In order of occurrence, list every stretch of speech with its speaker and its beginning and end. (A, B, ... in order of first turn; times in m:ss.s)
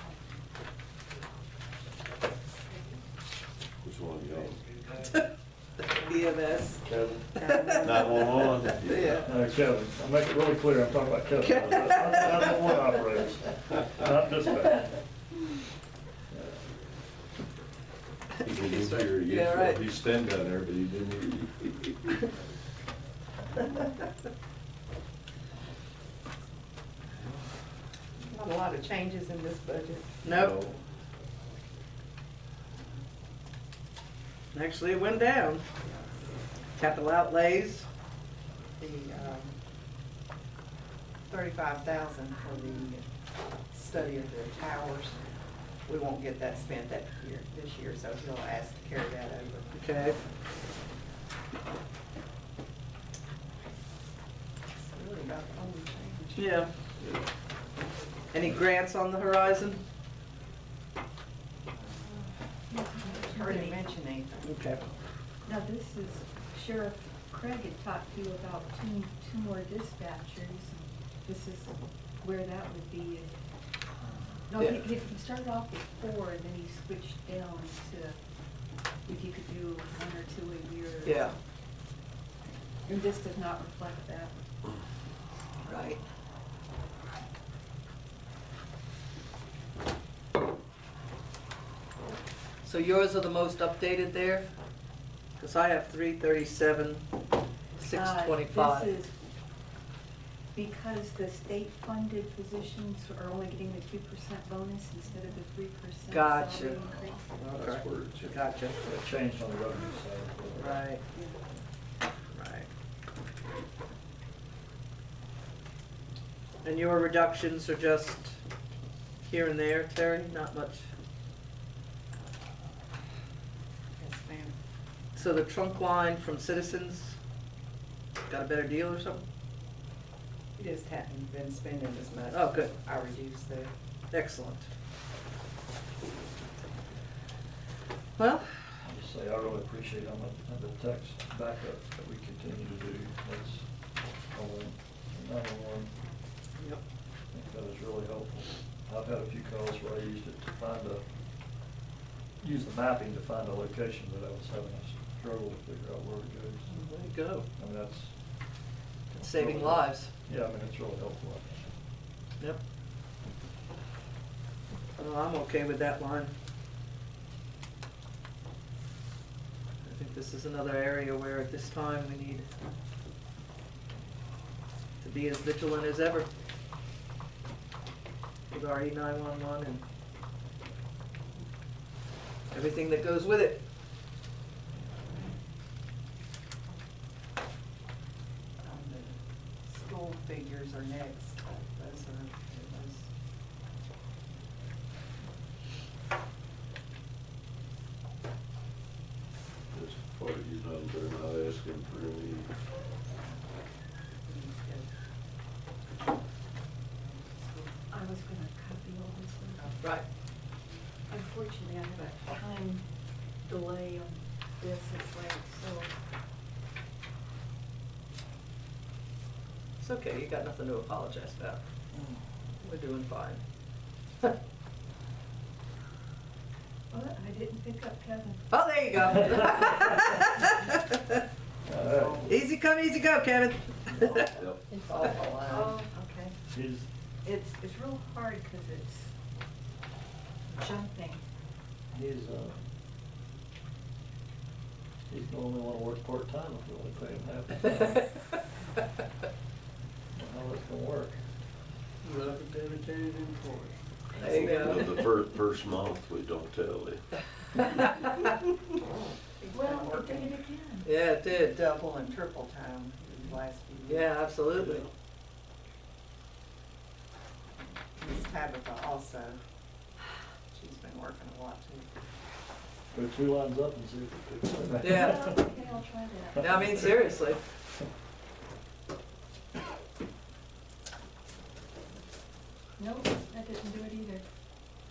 0:03.8-0:04.6 A
0:05.0-0:05.2 B
0:05.9-0:06.8 B
0:06.8-0:07.3 C
0:07.3-0:09.3 B
0:07.4-0:08.2 D
0:07.8-0:09.3 A
0:09.2-0:15.0 C
0:11.4-0:12.4 B
0:16.3-0:16.6 C
0:18.4-0:21.6 A
0:18.5-0:19.8 B
0:28.2-0:30.8 D
0:30.2-0:30.7 B
0:30.2-0:30.7 A
0:34.5-0:35.7 B
0:35.8-0:36.1 D
0:36.8-0:37.9 B
0:38.8-0:39.6 D
0:41.3-0:43.0 D
0:43.7-0:45.2 D
0:45.9-0:50.1 D
0:49.7-0:50.2 B
0:54.8-0:56.6 D
0:56.4-0:56.7 B
0:58.3-0:59.8 B
1:01.7-1:02.3 D
1:02.7-1:04.0 E
1:03.1-1:04.9 D
1:04.4-1:04.8 B
1:05.4-1:13.3 E
1:14.5-1:18.2 E
1:14.6-1:14.8 B
1:19.1-1:21.3 E
1:21.0-1:21.3 B
1:22.9-1:24.3 E
1:25.6-1:26.0 B
1:32.6-1:34.5 B
1:35.4-1:37.1 B
1:37.8-1:38.9 B
1:37.9-1:39.1 E
1:40.5-1:47.3 E
1:46.1-1:46.8 B
1:47.2-1:48.4 A
1:47.4-1:48.8 B
1:48.8-1:50.8 C
1:50.6-1:51.0 B
1:51.1-1:51.4 E
1:52.3-1:52.7 B
1:56.6-1:58.4 B
1:59.2-2:00.9 B
2:04.0-2:04.5 D
2:05.2-2:07.2 B
2:08.3-2:09.2 B
2:10.6-2:13.7 D
2:12.3-2:12.7 B
2:14.1-2:14.6 B
2:18.2-2:18.5 B
2:18.8-2:23.7 C
2:24.3-2:26.0 C
2:27.3-2:31.1 C
2:32.4-2:36.9 C
2:36.7-2:37.5 B
2:37.5-2:38.2 C
2:39.1-2:41.7 C
2:39.2-2:40.1 B
2:45.0-2:46.3 B
2:49.8-2:52.5 B
2:55.0-2:56.3 B
2:58.5-2:59.8 B
3:02.5-3:03.6 B
3:08.6-3:13.1 D
3:19.7-3:22.5 A
3:24.2-3:24.9 D
3:27.0-3:27.8 D
3:27.9-3:29.7 E
3:31.1-3:32.8 E
3:33.4-3:35.9 E
3:39.8-3:41.6 B
3:42.6-3:43.4 B
3:46.9-3:48.5 E
3:48.5-3:51.0 B
3:50.2-3:50.5 E
3:51.6-3:52.3 C
3:51.8-3:52.3 D
3:52.2-3:54.4 B
3:54.7-3:56.3 E
3:54.8-3:55.9 D
3:56.5-3:56.9 C
3:57.2-3:59.1 E
4:00.5-4:01.2 E
4:01.9-4:02.7 C
4:05.1-4:08.0 C
4:10.1-4:11.2 C
4:14.1-4:14.7 C
4:14.2-4:17.1 A
4:14.2-4:14.8 B
4:19.4-4:20.4 D
4:19.5-4:20.9 E
4:20.8-4:21.6 B
4:21.3-4:24.2 D
4:23.8-4:24.9 B
4:28.0-4:29.4 D
4:30.5-4:31.9 D
4:32.9-4:35.4 C
4:34.8-4:35.3 B
4:34.9-4:37.0 E
4:36.4-4:37.4 B
4:42.8-4:44.2 E